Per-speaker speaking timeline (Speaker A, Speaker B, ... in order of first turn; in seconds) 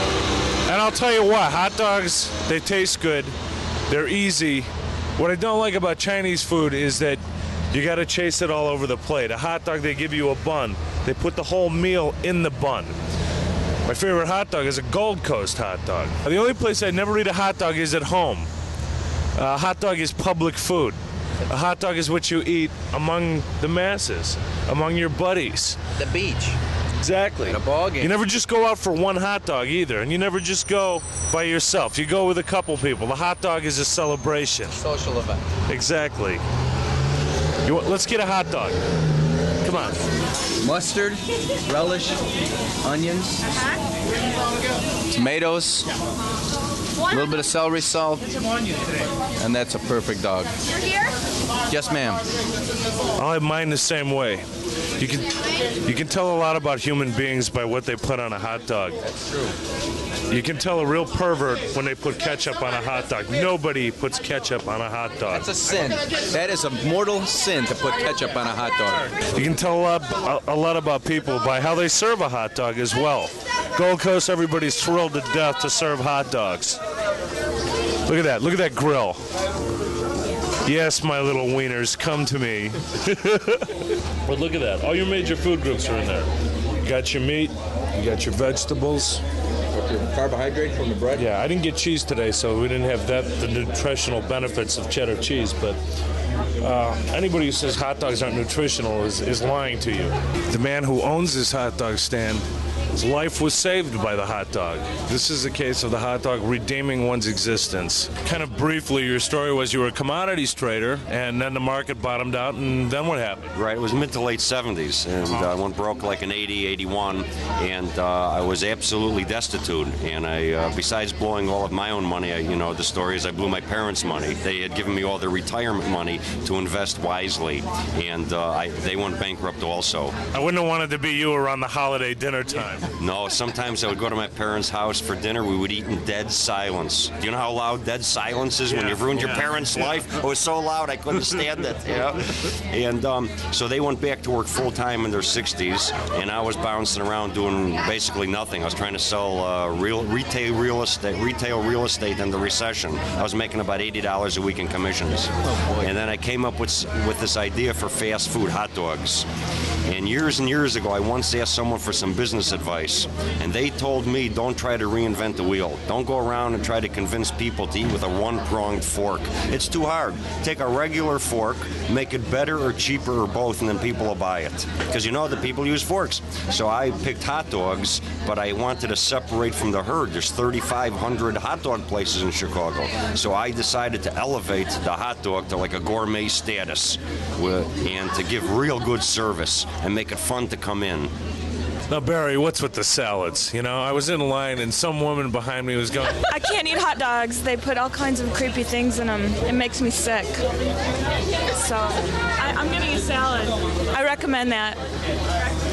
Speaker A: 0.7-3.4, 3.9-12.9, 13.9-18.5, 19.4-25.8, 27.0-34.8, 35.7-36.4, 37.6-38.8, 39.6-40.0, 53.2-54.5, 55.0-59.0, 60.3-65.5, 69.3-76.8, 78.0-79.2, 80.7-86.3, 86.8-89.2, 91.2-95.8, 96.6-102.5, 103.0-113.5, 130.3-132.9, 191.9-196.3
Speaker B: 26.0-26.6, 27.5-28.2, 34.7-35.5, 40.6-42.2, 42.8-43.5, 45.1-45.9, 47.1-48.4, 49.4-50.5, 51.7-52.3, 59.0-59.5, 65.3-69.1, 89.7-91.3
Speaker C: 113.5-130.2, 133.0-159.3, 159.9-191.1
Speaker D: 196.3-200.5, 201.5-204.8